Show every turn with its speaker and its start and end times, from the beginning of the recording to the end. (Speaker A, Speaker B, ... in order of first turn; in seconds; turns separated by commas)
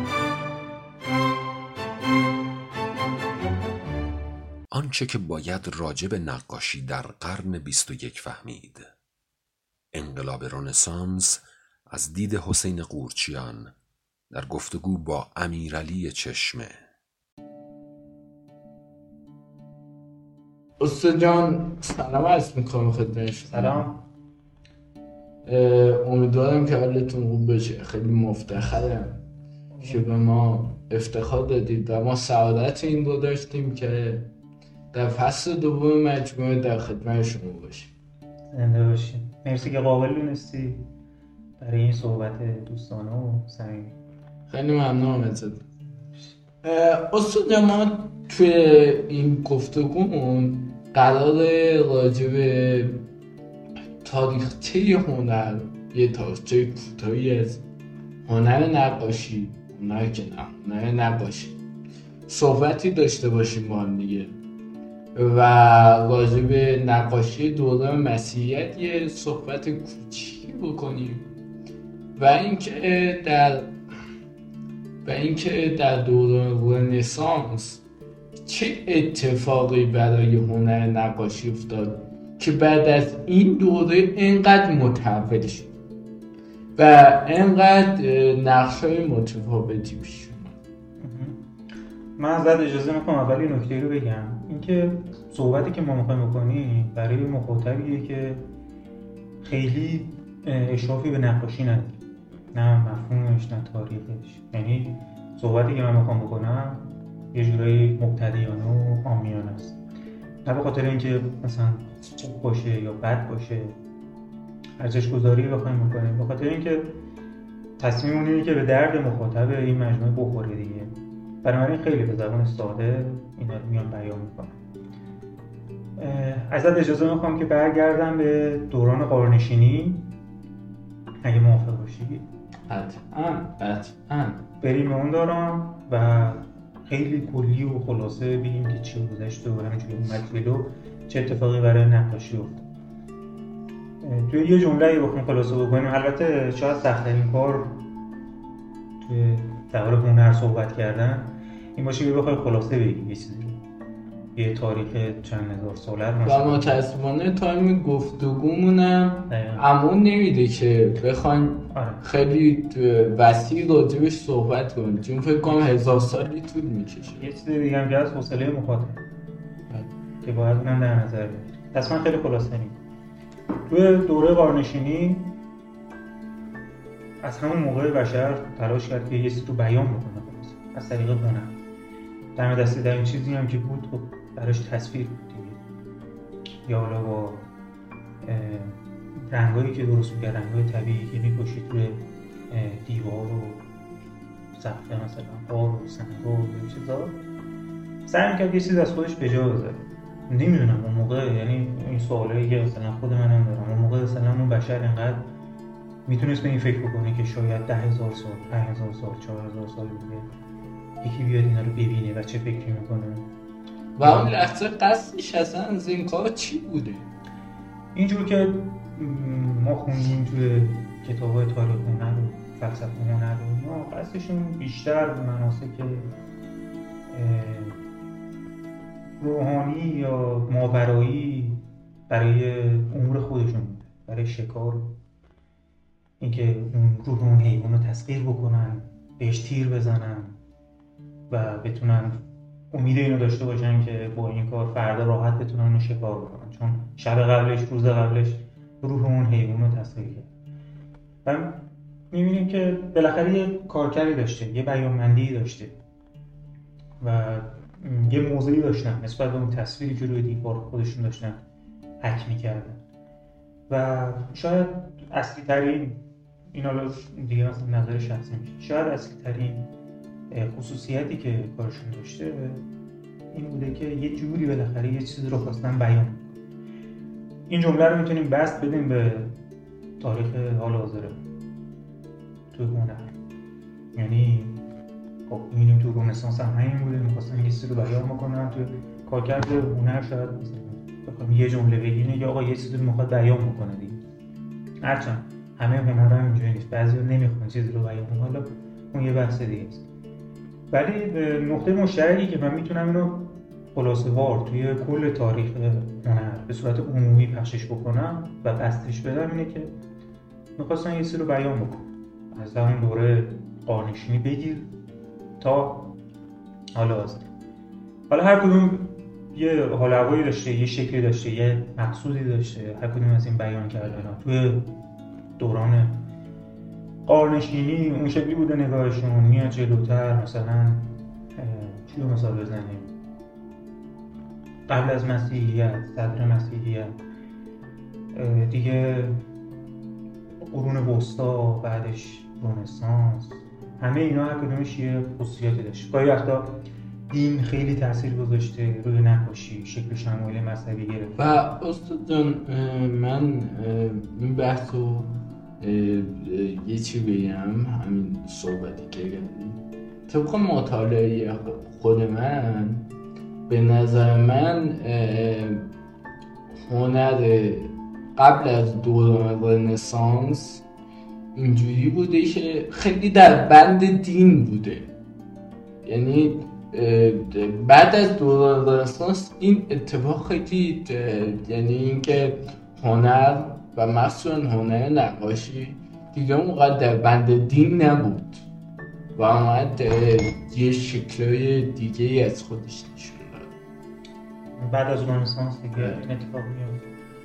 Speaker A: 4.7-8.9, Speaker A: 9.9-13.7, Speaker A: 14.3-16.8, Speaker B: 20.8-23.9, Speaker C: 23.5-24.0, Speaker B: 25.4-29.2, Speaker C: 29.7-30.2, Speaker B: 29.8-34.3, Speaker B: 34.9-37.9, Speaker C: 38.5-40.9, Speaker C: 41.6-43.9, Speaker B: 44.5-45.6, Speaker B: 46.6-53.1, Speaker B: 54.0-57.6, Speaker B: 58.2-61.6, Speaker B: 62.3-64.4, Speaker B: 65.1-71.3, Speaker B: 72.1-73.8, Speaker B: 75.0-77.8, Speaker B: 78.4-85.7, Speaker B: 86.8-90.6, Speaker C: 91.0-91.4, Speaker C: 92.2-98.5, Speaker C: 99.4-102.0, Speaker C: 102.5-109.8, Speaker C: 110.4-113.7, Speaker C: 114.8-117.0, Speaker C: 117.8-124.5, Speaker C: 126.0-130.1, Speaker C: 131.2-132.2, Speaker B: 132.7-134.4, Speaker C: 134.6-142.7, Speaker C: 144.0-147.9, Speaker C: 149.0-153.6, Speaker C: 154.3-156.7, Speaker B: 156.2-167.3, Speaker C: 159.3-159.7, Speaker C: 161.7-162.0, Speaker C: 165.5-166.0, Speaker C: 167.1-169.0, Speaker C: 170.2-172.8, Speaker C: 173.7-175.4, Speaker C: 177.2-181.6, Speaker C: 182.3-185.6, Speaker C: 186.7-187.5, Speaker C: 188.2-193.7, Speaker C: 194.5-197.2, Speaker C: 198.1-205.3, Speaker C: 206.1-210.3, Speaker C: 211.0-213.3, Speaker B: 213.9-217.1, Speaker C: 214.0-214.3, Speaker C: 217.9-226.1, Speaker C: 227.1-227.8, Speaker C: 229.2-234.9, Speaker C: 236.2-240.4, Speaker C: 241.3-250.3, Speaker C: 251.2-255.8, Speaker C: 257.0-261.4, Speaker C: 262.0-262.8, Speaker C: 263.7-269.7, Speaker C: 270.3-272.6, Speaker C: 273.3-276.4, Speaker C: 277.5-279.4, Speaker C: 280.0-281.2, Speaker C: 282.5-283.1, Speaker C: 283.9-284.6, Speaker C: 285.3-294.0, Speaker C: 294.8-299.8, Speaker C: 300.7-309.7, Speaker C: 310.6-314.7, Speaker C: 315.4-316.0, Speaker C: 316.7-317.3, Speaker C: 318.1-324.8, Speaker C: 325.4-326.1, Speaker C: 327.1-332.9, Speaker C: 334.7-337.0, Speaker C: 338.1-339.2, Speaker C: 340.4-351.4, Speaker B: 351.1-362.9, Speaker B: 363.5-365.7, Speaker B: 366.5-370.6, Speaker B: 371.3-374.9, Speaker B: 375.8-388.4, Speaker B: 389.1-393.5, Speaker C: 394.6-396.9, Speaker B: 395.8-396.0